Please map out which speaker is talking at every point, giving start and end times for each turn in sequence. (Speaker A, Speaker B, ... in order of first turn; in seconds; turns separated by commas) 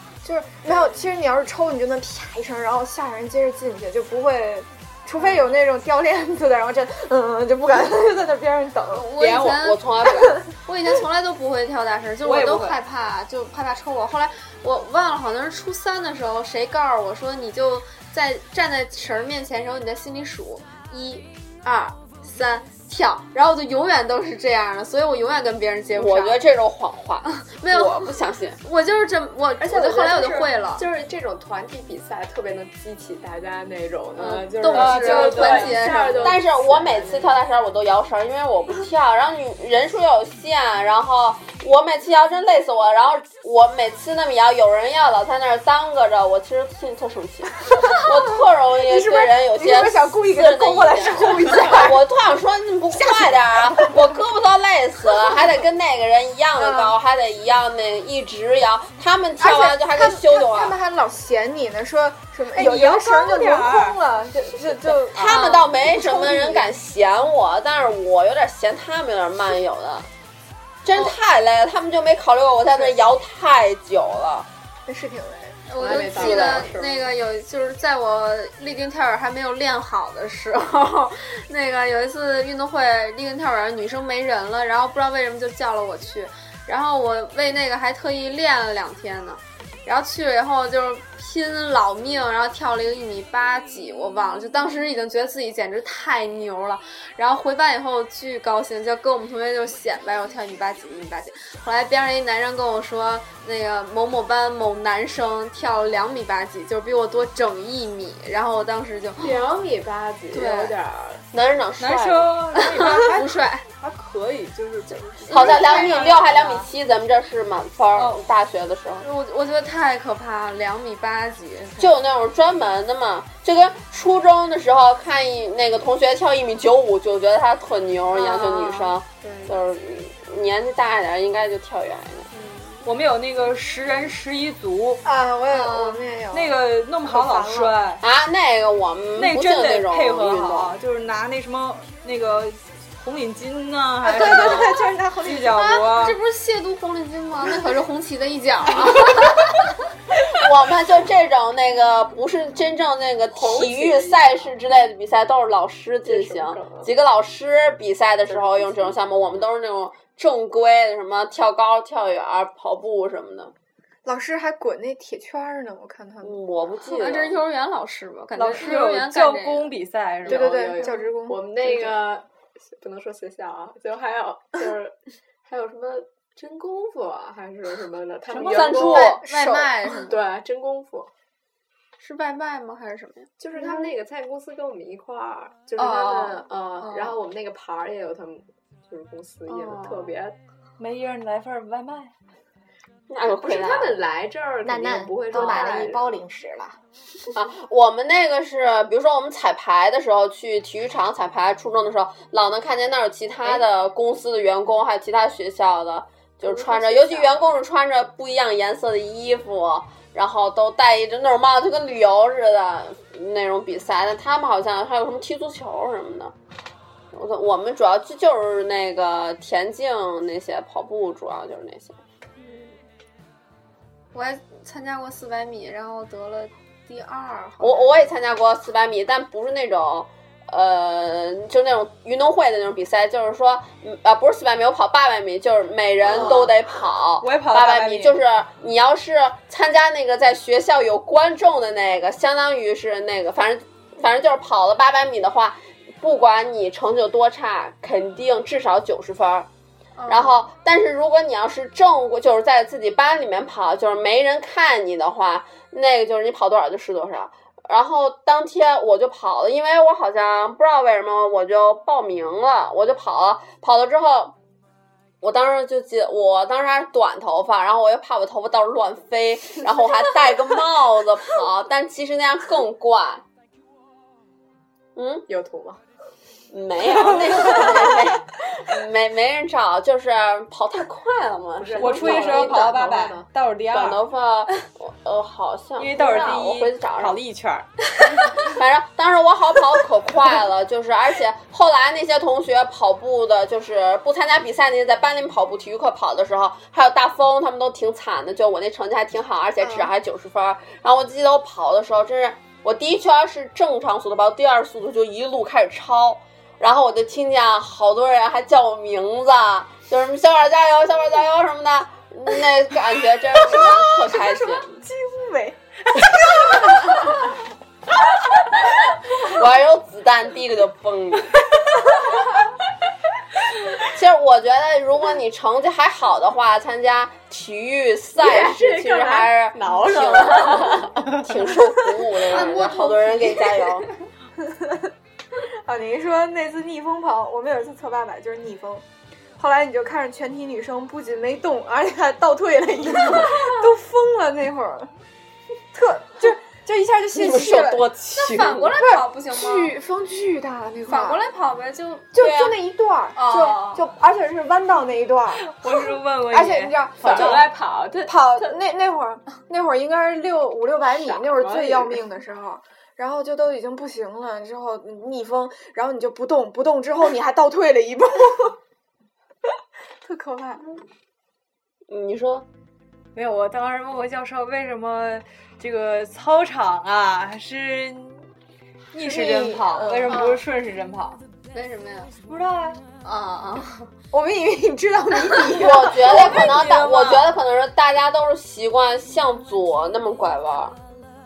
Speaker A: 0.2-9.1, Speaker B: 8.9-26.4, Speaker C: 9.2-10.4, Speaker D: 12.2-12.8, Speaker C: 25.9-28.6, Speaker B: 27.4-30.9, Speaker E: 29.6-37.4, Speaker B: 34.2-36.4, Speaker D: 34.7-35.9, Speaker C: 36.2-60.8, Speaker A: 48.8-52.0, Speaker A: 53.0-54.1, Speaker A: 56.6-56.9, Speaker A: 59.4-66.8, Speaker D: 62.5-64.0, Speaker C: 65.1-70.1, Speaker B: 65.3-65.6, Speaker C: 70.8-74.5, Speaker A: 74.9-75.9, Speaker B: 75.7-109.4, Speaker E: 75.8-77.1, Speaker C: 76.1-76.7, Speaker E: 109.2-111.3, Speaker B: 110.3-110.8, Speaker C: 111.3-112.3, Speaker D: 111.8-116.7, Speaker B: 112.6-113.7, Speaker B: 115.3-116.2, Speaker C: 115.3-119.1, Speaker B: 119.0-122.0, Speaker C: 121.8-132.3, Speaker B: 128.1-129.5, Speaker B: 132.3-132.9, Speaker D: 132.8-135.0, Speaker A: 135.0-137.8, Speaker B: 135.5-136.0, Speaker D: 136.3-138.0, Speaker C: 138.0-140.8, Speaker D: 139.2-146.2, Speaker A: 144.1-145.6, Speaker B: 144.2-144.6, Speaker B: 145.5-149.7, Speaker C: 150.2-163.5, Speaker E: 153.3-154.5, Speaker E: 156.1-156.9, Speaker E: 158.3-158.7, Speaker A: 164.1-166.4, Speaker C: 166.2-167.4, Speaker B: 166.9-169.7, Speaker D: 168.4-170.6, Speaker E: 170.2-179.2, Speaker A: 170.3-171.4, Speaker C: 178.4-179.2, Speaker B: 178.6-180.2, Speaker A: 179.2-179.9, Speaker E: 180.0-181.1, Speaker B: 182.0-183.3, Speaker E: 183.4-190.3, Speaker B: 185.8-187.2, Speaker B: 189.5-190.2, Speaker D: 190.8-192.1, Speaker C: 193.1-194.0, Speaker E: 193.3-196.2, Speaker A: 194.6-196.8, Speaker B: 195.3-195.8, Speaker C: 197.3-216.3, Speaker E: 206.6-207.4, Speaker C: 217.1-222.0, Speaker B: 222.4-222.8, Speaker B: 224.1-228.1, Speaker C: 227.6-249.5, Speaker E: 236.1-236.5, Speaker D: 237.2-238.2, Speaker B: 250.0-250.5, Speaker C: 250.1-264.4, Speaker C: 265.2-273.2, Speaker C: 275.0-275.3, Speaker E: 275.3-275.8, Speaker C: 276.5-283.0, Speaker E: 281.6-283.3, Speaker D: 281.8-284.1, Speaker C: 283.7-287.2, Speaker D: 285.8-287.7, Speaker C: 288.3-314.8, Speaker A: 313.3-317.4, Speaker C: 319.1-321.6, Speaker C: 323.8-333.9, Speaker E: 328.2-331.1, Speaker E: 332.3-332.7, Speaker B: 332.3-333.7, Speaker A: 334.4-334.9, Speaker A: 335.6-338.9, Speaker A: 339.4-344.9, Speaker A: 345.7-347.9, Speaker C: 347.1-348.7, Speaker B: 348.2-349.7, Speaker A: 348.8-351.3, Speaker B: 350.9-352.1, Speaker A: 352.1-357.4, Speaker C: 352.2-352.6, Speaker B: 353.1-353.8, Speaker D: 355.4-357.5, Speaker E: 357.0-358.6, Speaker A: 358.1-368.6, Speaker E: 360.9-362.0, Speaker A: 370.0-370.6, Speaker C: 371.9-372.4, Speaker D: 373.1-378.3, Speaker D: 378.9-381.2, Speaker A: 379.0-380.2, Speaker B: 380.1-380.4, Speaker B: 381.5-382.1, Speaker D: 382.3-382.8, Speaker B: 383.0-383.9, Speaker A: 384.1-386.6, Speaker C: 385.5-390.8, Speaker D: 386.0-387.4